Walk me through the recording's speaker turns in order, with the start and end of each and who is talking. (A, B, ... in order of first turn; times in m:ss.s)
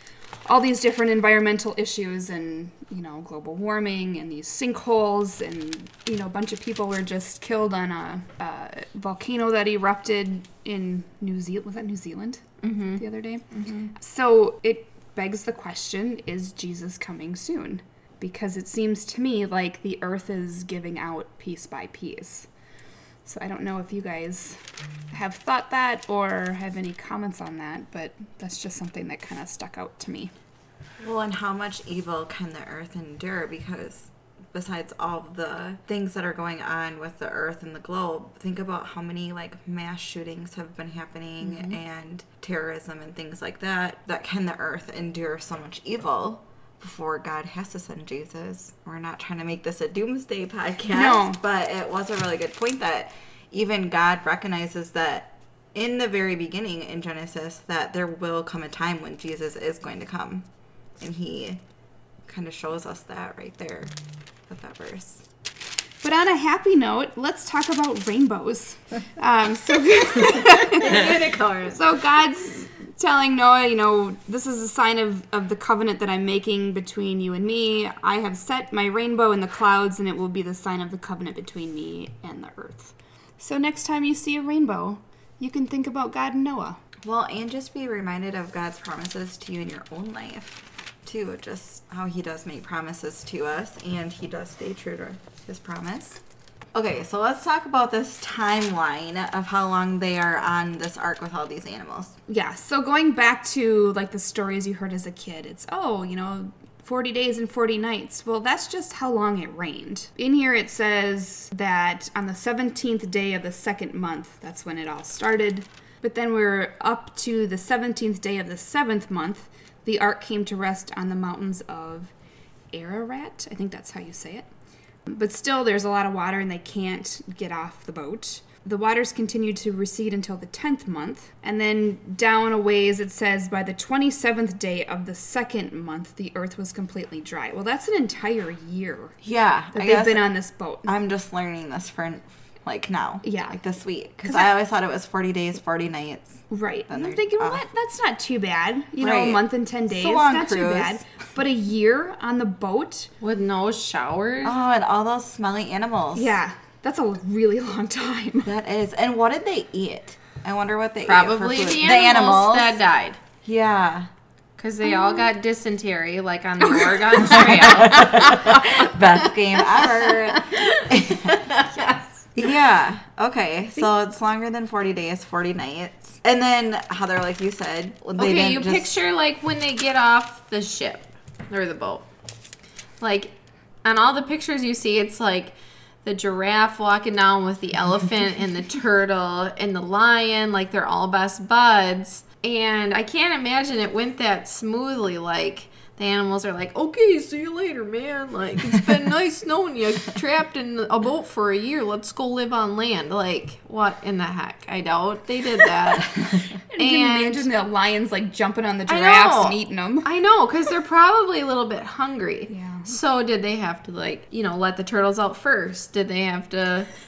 0:00.5-0:12.4 A
0:12.6-0:13.9 B
0:13.0-0:22.5 A
0:23.2-0:24.6 A
0:25.1-0:30.3 A
0:31.0-1:00.4 C
0:41.4-0:41.8 A
0:50.9-0:51.4 A
1:01.0-1:01.6 C
1:02.3-1:03.9 C
1:04.5-1:05.2 C
1:06.0-1:11.1 A
1:10.8-1:11.8 C
1:11.7-1:26.8 A
1:27.0-1:36.2 C
1:36.7-1:42.1 C
1:42.3-2:02.1 A
2:02.7-2:04.5 A
2:05.1-2:19.1 A
2:19.2-2:20.3 C
2:19.7-2:20.9 A
2:20.9-2:27.6 C
2:23.2-2:23.6 A
2:24.2-2:24.5 A
2:26.5-2:33.1 A
2:29.0-2:31.0 C
2:33.2-2:34.5 B
2:34.4-2:36.3 C
2:36.1-2:38.5 A
2:38.4-2:42.8 C
2:41.0-2:43.2 B
2:43.4-2:44.1 C
2:44.6-2:48.9 B
2:44.8-2:45.3 A
2:47.1-2:51.4 C
2:49.6-2:52.1 B
2:52.4-2:59.0 C
2:58.2-3:02.1 B
3:03.0-3:03.3 B
3:03.8-3:26.1 B
3:26.0-3:26.5 C
3:26.7-3:30.1 A
3:26.8-3:27.5 B
3:28.9-3:36.9 B
3:32.5-3:32.9 A